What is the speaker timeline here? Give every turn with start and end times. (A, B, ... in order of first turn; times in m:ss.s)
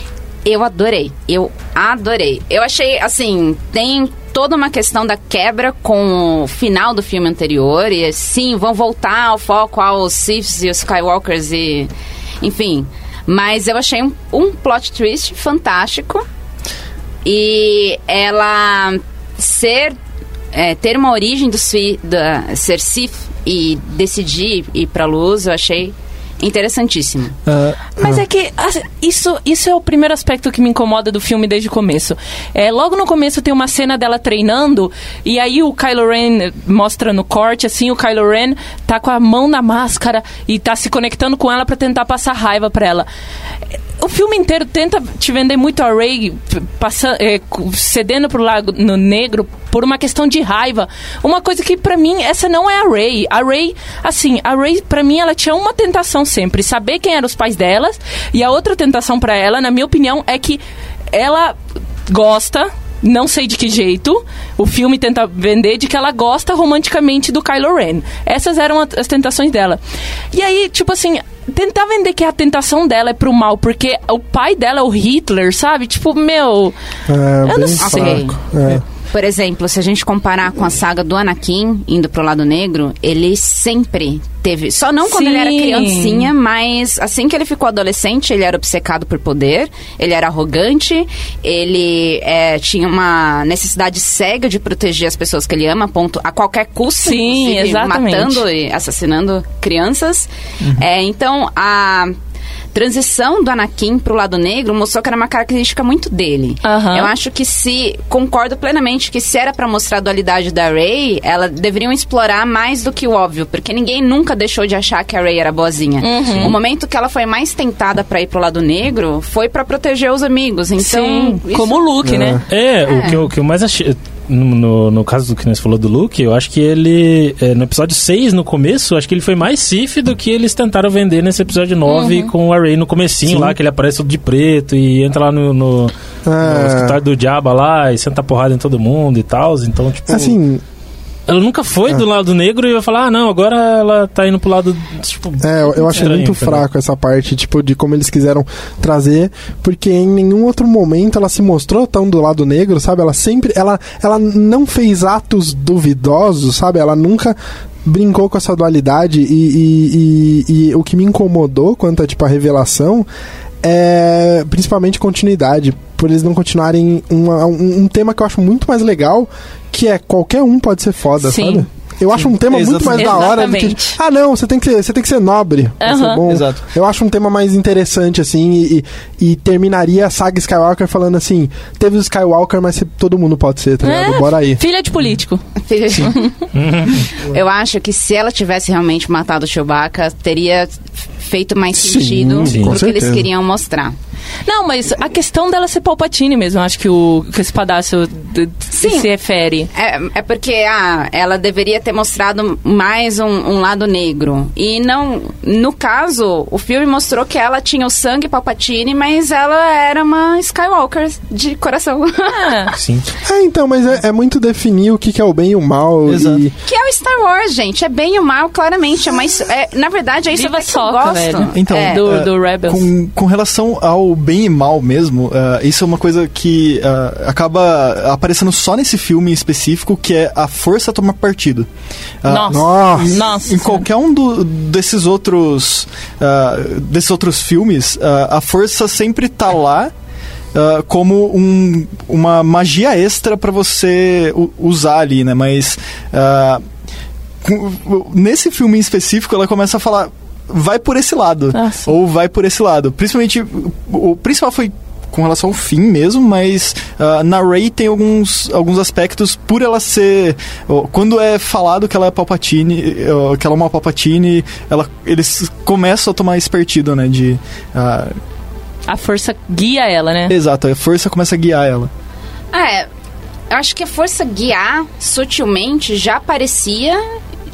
0:00.4-0:11.9 A
0:12.4-0:16.2 A
0:17.2-0:20.0 A
0:20.5-0:27.4 A
0:27.5-0:27.8 B
0:28.0-0:43.1 C
0:44.0-1:01.6 C
1:02.1-1:09.8 C
1:10.3-1:16.8 C
1:17.1-1:18.8 D
1:17.4-1:18.2 C
1:17.8-1:18.5 A
1:19.1-1:42.2 A
1:25.1-1:26.3 C
1:37.0-1:38.4 C
1:42.7-2:01.9 A
1:46.6-1:47.1 C
1:56.0-1:56.5 C
2:00.8-2:02.4 C
2:02.0-2:02.4 D
2:02.5-2:20.4 E
2:02.9-2:03.2 A
2:11.9-2:12.3 C
2:13.3-2:13.6 D
2:16.3-2:17.0 D
2:20.1-2:20.6 D
2:21.3-2:26.7 E
2:25.4-2:43.1 D
2:43.6-3:04.6 D
2:51.2-2:51.6 C
2:52.1-2:53.5 B
2:52.9-2:54.0 C
2:55.8-2:56.2 C
2:56.2-2:56.6 B
3:03.8-3:05.4 C
3:05.7-3:06.5 A
3:06.6-3:07.1 E
3:07.2-3:14.0 A
3:11.8-3:13.3 D
3:12.4-3:12.8 E
3:14.5-3:19.7 C
3:18.8-3:19.1 A
3:19.7-3:32.7 A
3:32.3-3:32.7 C
3:32.8-3:33.1 E
3:33.2-3:36.5 D
3:36.1-3:36.4 B
3:36.7-3:42.0 A
3:40.4-3:42.9 C
3:41.5-3:51.7 B
3:52.2-3:59.9 B
3:52.3-3:53.8 C
3:52.5-3:53.2 D
4:00.5-4:06.6 B
4:07.4-4:28.2 B
4:11.5-4:11.9 C
4:28.9-4:30.3 C
4:30.3-4:31.9 B
4:32.5-4:32.9 A
4:33.5-4:37.0 A